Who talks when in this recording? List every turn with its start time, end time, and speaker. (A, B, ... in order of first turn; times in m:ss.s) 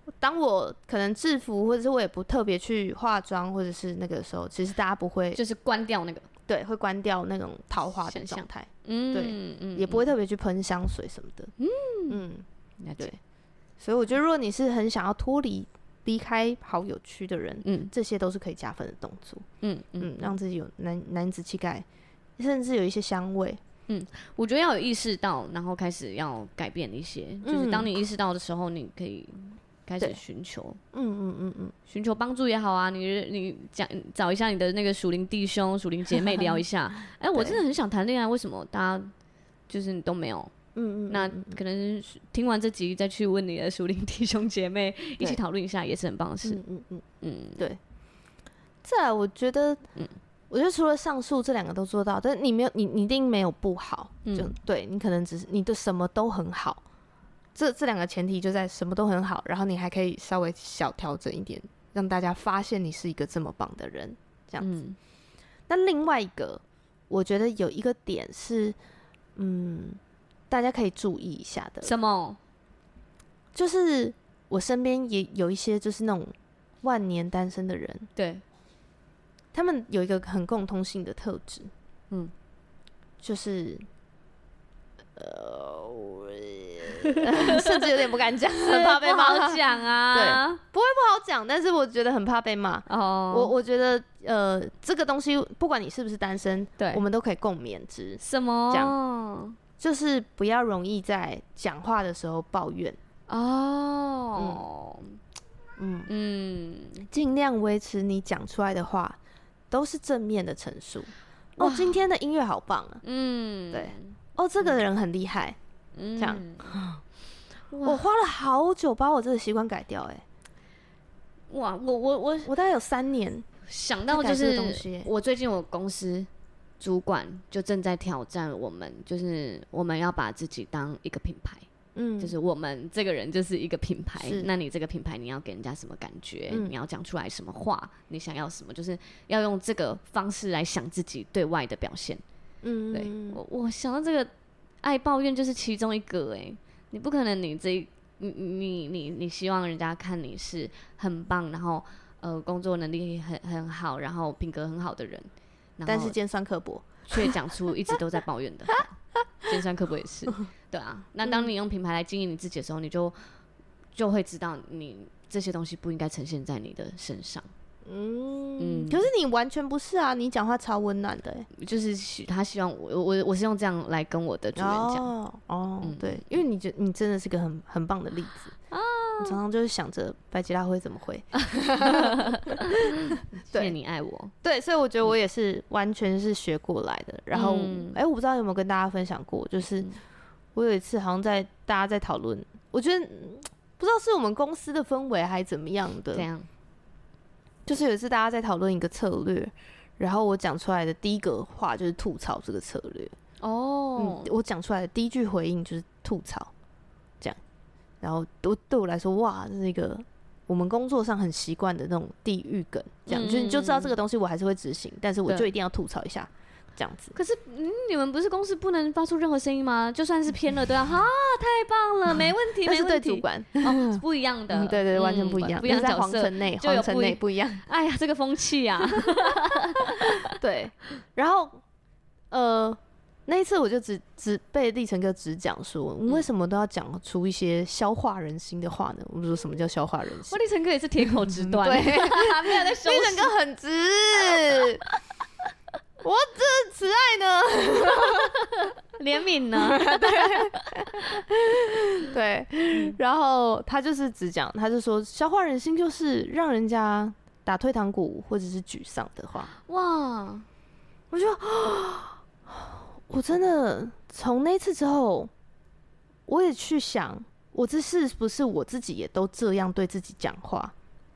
0:00.2-0:05.4 A
0:05.3-0:06.3 B
0:06.5-0:11.5 A
0:08.1-0:10.1 B
0:11.6-0:12.2 B
0:12.1-0:12.4 A
0:12.8-0:13.1 B
0:13.8-0:19.5 A
0:17.6-0:17.9 B
0:19.6-0:20.3 B
0:20.0-0:21.8 A
0:22.4-0:23.6 A
0:23.9-0:30.8 B
0:27.4-0:27.9 A
0:30.9-0:31.7 A
0:31.9-0:39.1 B
0:36.2-0:36.5 A
0:37.3-0:37.6 A
0:39.7-0:40.5 B
0:40.8-0:41.6 A
0:41.1-0:46.6 B
0:46.4-0:47.0 A
0:47.2-0:47.6 B
0:48.8-0:49.8 A
0:50.5-0:56.8 A
0:54.2-0:54.5 B
0:57.6-1:04.7 A
1:04.6-1:05.0 B
1:05.7-1:08.8 A
1:09.4-1:11.9 A
1:11.8-1:12.4 B
1:13.5-1:18.1 A
1:18.2-1:18.4 B
1:19.5-1:21.7 A
1:23.2-1:23.8 A
1:25.2-1:39.0 A
1:27.0-1:27.9 B
1:28.6-1:30.6 B
1:32.9-1:33.5 B
1:36.8-1:37.0 B
1:38.2-1:39.6 B
1:39.8-1:43.0 A
1:43.3-1:45.2 B
1:44.4-1:44.6 A
1:45.8-1:46.1 A
1:46.1-1:47.1 B
1:47.1-1:49.2 A
1:49.7-1:53.0 A
1:51.6-1:52.0 B
1:53.0-1:54.8 B
1:53.7-1:55.6 A
1:56.0-1:56.8 B
1:56.2-1:57.0 A
1:57.7-1:58.0 B
1:57.8-2:00.2 A
2:01.5-2:02.5 B
2:02.4-2:03.5 A
2:03.7-2:06.3 B
2:04.1-2:05.1 A
2:06.8-2:11.7 B
2:12.0-2:12.3 A
2:12.2-2:22.2 B
2:14.2-2:14.5 A
2:22.6-2:23.4 A
2:22.9-2:24.3 B
2:24.8-2:36.2 B
2:35.9-2:37.3 A
2:37.1-2:43.2 B
2:41.2-2:41.5 A
2:44.0-2:47.5 B
2:47.8-2:51.5 A
2:48.6-2:49.1 B
2:51.6-2:55.1 B
2:54.6-2:58.6 A
2:55.8-2:56.2 B
2:58.7-2:59.4 B
2:59.2-3:03.8 A
3:01.8-3:04.3 B
3:04.4-3:09.9 A
3:07.3-3:08.0 B
3:10.6-3:16.3 A
3:16.1-3:16.5 B
3:17.7-3:23.1 A
3:23.4-3:24.3 B
3:24.0-3:26.5 A
3:28.0-3:37.2 A
3:33.1-3:34.0 B
3:37.1-3:50.4 B
3:42.6-3:47.6 A
3:49.0-3:51.6 A
3:52.3-4:00.4 A
4:00.3-4:03.3 B
4:01.0-4:04.8 A
4:06.0-4:08.5 A
4:08.0-4:11.2 B
4:09.6-4:19.5 A
4:19.6-4:20.5 B
4:21.1-4:25.3 A
4:26.3-4:30.7 A